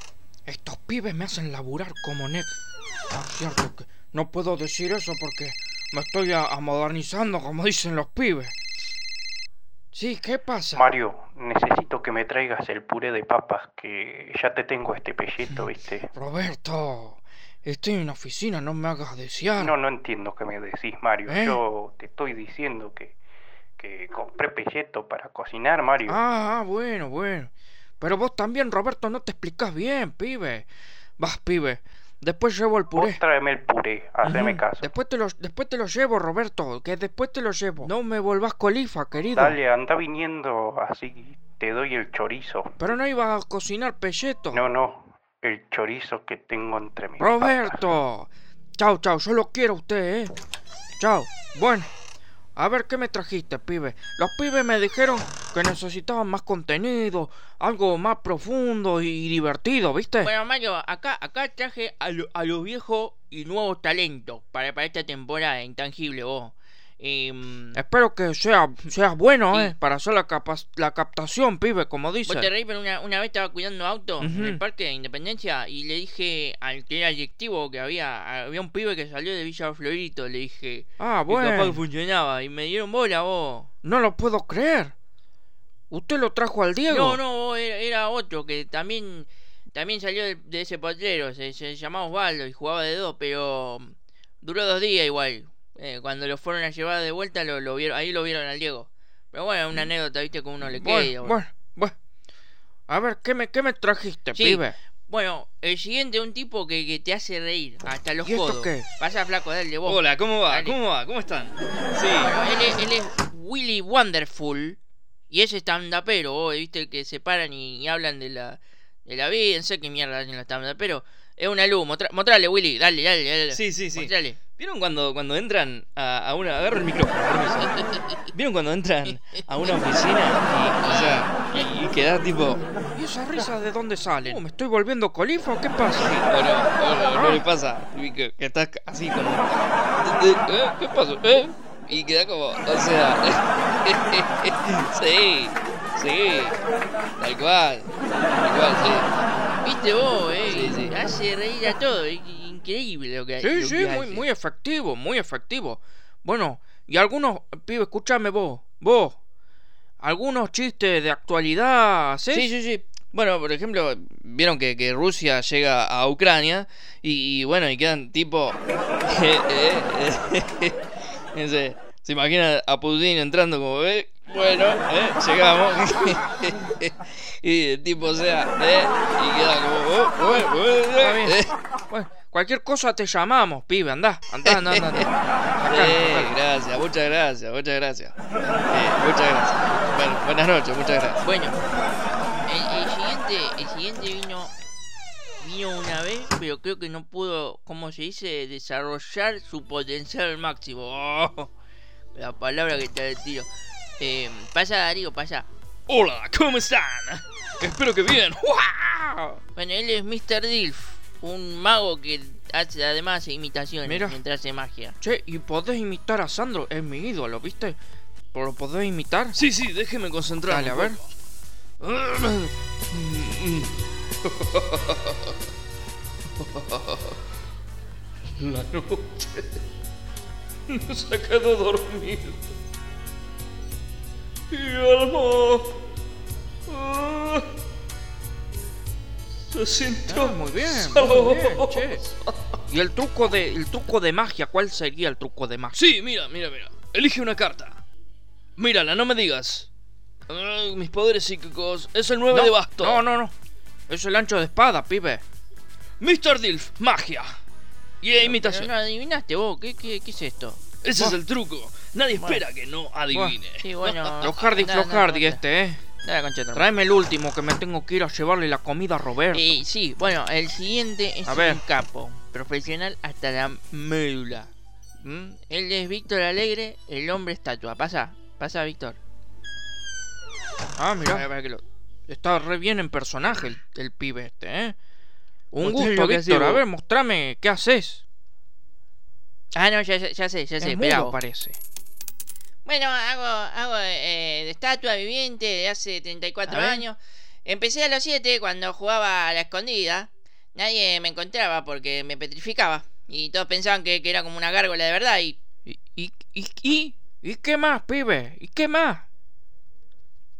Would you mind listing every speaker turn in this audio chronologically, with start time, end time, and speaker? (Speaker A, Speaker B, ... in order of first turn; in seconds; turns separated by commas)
Speaker A: 0.5-2.6, Speaker A: 3.1-8.5, Speaker A: 9.9-10.9, Speaker B: 10.8-16.1, Speaker A: 16.1-19.7, Speaker B: 19.6-23.1, Speaker A: 21.3-21.6, Speaker B: 23.8-26.2, Speaker A: 26.0-30.7, Speaker A: 31.2-33.2, Speaker B: 32.9-34.9, Speaker A: 34.2-39.6, Speaker B: 39.3-42.8, Speaker A: 42.8-44.6, Speaker B: 44.5-47.9, Speaker A: 47.2-50.3, Speaker A: 51.0-51.9, Speaker A: 52.5-60.3, Speaker C: 60.2-67.8, Speaker A: 67.7-72.5, Speaker C: 72.2-83.7, Speaker A: 74.2-74.6, Speaker A: 81.0-81.8, Speaker A: 83.8-84.9, Speaker A: 85.9-87.2, Speaker C: 86.9-101.4, Speaker A: 100.6-101.9, Speaker A: 102.9-104.7, Speaker C: 104.3-110.8, Speaker A: 108.2-108.8, Speaker D: 109.8-112.3, Speaker C: 112.1-114.8, Speaker C: 115.3-124.4, Speaker A: 123.6-124.1, Speaker D: 124.6-126.0, Speaker A: 125.8-127.7, Speaker C: 127.6-128.2, Speaker D: 128.3-132.6, Speaker C: 129.1-130.0, Speaker C: 130.8-131.7, Speaker A: 132.9-136.1, Speaker D: 136.1-146.6, Speaker A: 137.1-137.4, Speaker D: 147.2-149.1, Speaker C: 149.6-154.3, Speaker D: 150.5-150.9, Speaker A: 153.4-159.2, Speaker A: 160.0-162.5, Speaker C: 162.3-164.3, Speaker D: 165.4-166.3, Speaker C: 167.3-167.7, Speaker D: 169.1-170.7, Speaker D: 171.9-175.8, Speaker D: 176.4-176.9, Speaker D: 177.5-181.5, Speaker A: 181.0-181.4, Speaker A: 181.9-186.3, Speaker C: 184.5-185.1, Speaker C: 185.7-186.3, Speaker D: 186.4-188.1, Speaker D: 188.7-191.2, Speaker C: 191.2-191.6, Speaker C: 192.4-194.5, Speaker C: 195.4-201.5, Speaker C: 202.1-205.5, Speaker D: 205.9-208.3, Speaker A: 208.1-209.4, Speaker C: 209.5-214.9, Speaker A: 213.8-214.2, Speaker A: 215.0-217.8, Speaker A: 218.3-219.4, Speaker D: 219.3-221.1, Speaker A: 220.5-221.0, Speaker D: 221.8-223.7, Speaker D: 224.2-225.2, Speaker D: 226.4-227.0, Speaker D: 228.4-229.5, Speaker D: 230.7-232.3, Speaker D: 234.5-235.7, Speaker D: 236.7-237.4, Speaker D: 239.5-242.0, Speaker A: 240.1-242.1, Speaker A: 242.7-245.8, Speaker D: 245.7-247.8, Speaker D: 248.6-249.7, Speaker D: 250.3-253.0, Speaker A: 252.3-253.3, Speaker A: 253.9-255.2, Speaker D: 256.0-257.4, Speaker D: 258.1-258.5, Speaker A: 258.1-258.7, Speaker C: 258.1-260.6, Speaker D: 260.8-264.2, Speaker C: 262.1-262.4, Speaker A: 263.1-263.4, Speaker C: 263.6-265.4, Speaker A: 264.2-265.8, Speaker C: 266.0-266.6, Speaker A: 266.5-269.6, Speaker C: 269.3-274.5, Speaker A: 271.2-271.6, Speaker A: 275.0-275.3, Speaker C: 275.3-279.0, Speaker A: 280.8-281.3, Speaker C: 281.0-281.6, Speaker A: 282.1-284.8, Speaker A: 285.5-288.0, Speaker C: 285.6-286.6, Speaker C: 289.5-291.2, Speaker A: 290.6-291.6, Speaker C: 292.6-305.4, Speaker A: 296.5-296.8, Speaker A: 305.6-309.1